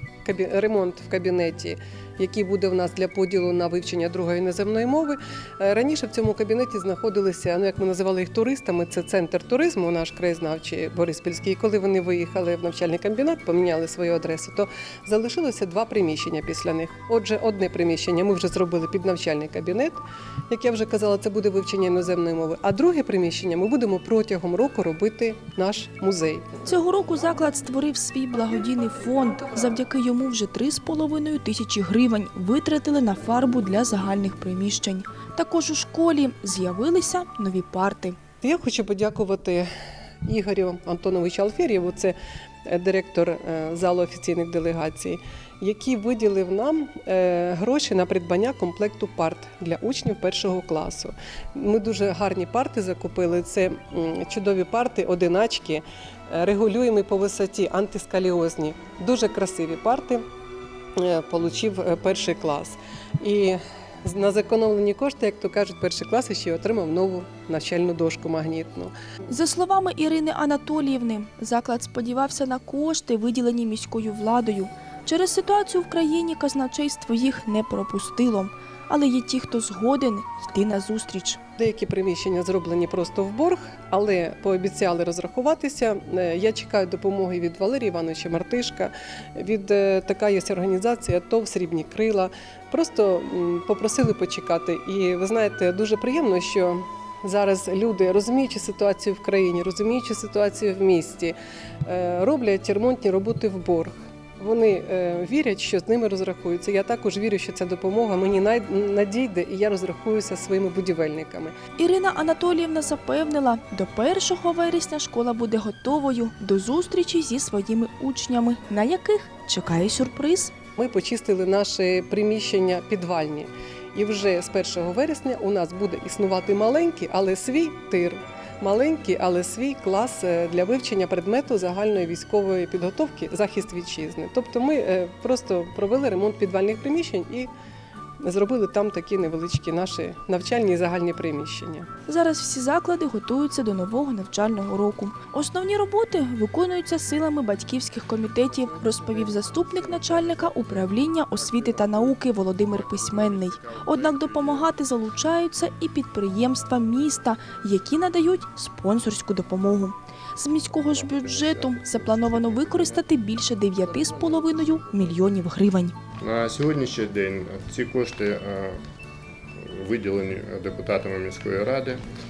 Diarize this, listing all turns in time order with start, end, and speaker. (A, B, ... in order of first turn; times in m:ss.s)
0:00.2-0:26.5 A
0:26.6-0:38.2 B
0:38.4-0:39.7 A
0:40.2-1:00.2 A
1:01.0-1:08.9 A
1:09.3-1:21.4 B
1:21.6-1:51.5 A
1:51.8-2:00.5 B
2:00.8-2:17.5 A
2:18.2-2:21.9 A
2:22.1-2:46.0 B
2:28.5-2:34.7 C
2:40.7-2:43.1 C
2:43.8-2:45.3 C
2:46.2-2:48.8 C
2:49.7-2:52.0 C